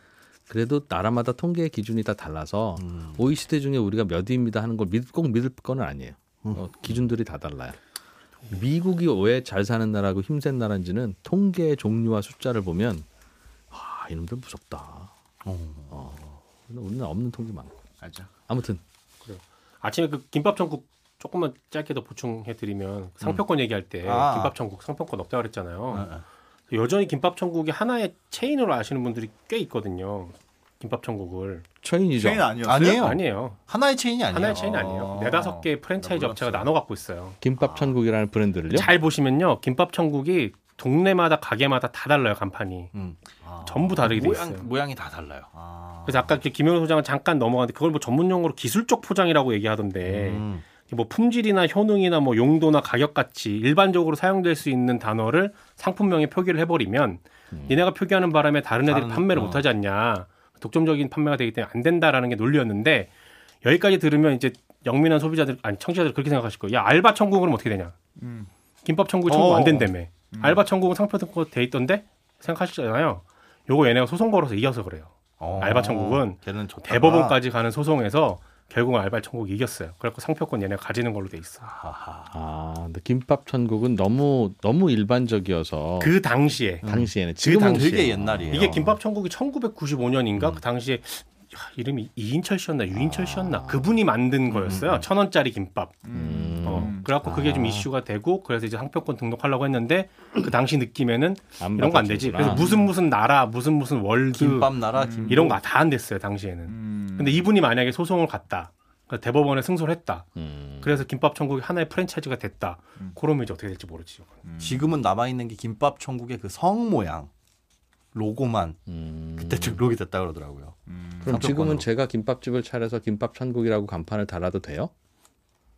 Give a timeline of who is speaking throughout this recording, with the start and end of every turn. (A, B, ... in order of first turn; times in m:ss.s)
0:00.5-0:07.8 A
0:02.8-0:03.3 B
0:08.5-0:13.1 A
0:13.7-0:15.1 A
0:15.4-0:15.9 B
0:15.9-0:17.7 A
0:18.0-0:18.3 C
0:18.5-0:18.8 A
0:19.2-0:26.1 D
0:24.0-0:24.6 B
0:25.9-0:26.2 B
0:26.7-0:31.6 D
0:31.8-0:32.5 A
0:32.2-0:33.2 C
0:32.6-0:35.1 B
0:32.7-0:33.6 D
0:34.3-0:37.4 D
0:34.4-0:36.6 C
0:37.4-0:38.9 A
0:37.6-0:38.0 C
0:38.7-0:42.9 D
0:43.4-0:44.1 C
0:43.6-0:44.7 D
0:44.0-0:45.5 B
0:45.5-0:46.4 C
0:46.1-1:03.1 D
0:50.0-0:50.6 B
0:57.5-0:57.8 A
0:58.9-0:59.7 B
1:03.6-1:08.0 D
1:08.2-1:08.5 C
1:08.8-1:21.8 D
1:09.3-1:09.9 B
1:10.3-1:10.6 C
1:15.4-1:17.4 B
1:21.7-1:22.3 B
1:22.3-1:26.1 A
1:26.0-1:26.9 D
1:26.8-1:29.0 B
1:26.8-1:28.6 A
1:27.5-1:27.9 D
1:28.5-1:36.1 D
1:33.0-1:33.8 A
1:34.6-1:35.1 B
1:36.0-1:37.1 C
1:36.1-1:37.8 A
1:36.6-1:54.3 D
1:41.6-1:42.8 A
1:42.6-1:42.8 C
1:44.3-1:45.6 B
1:45.0-1:45.5 C
1:46.7-1:47.5 C
1:50.4-1:51.0 A
1:54.4-1:55.0 C
1:54.6-1:57.3 B
1:58.1-1:58.8 B
1:58.9-1:59.8 A
1:59.4-2:01.9 B
2:00.9-2:01.5 C
2:01.2-2:04.9 A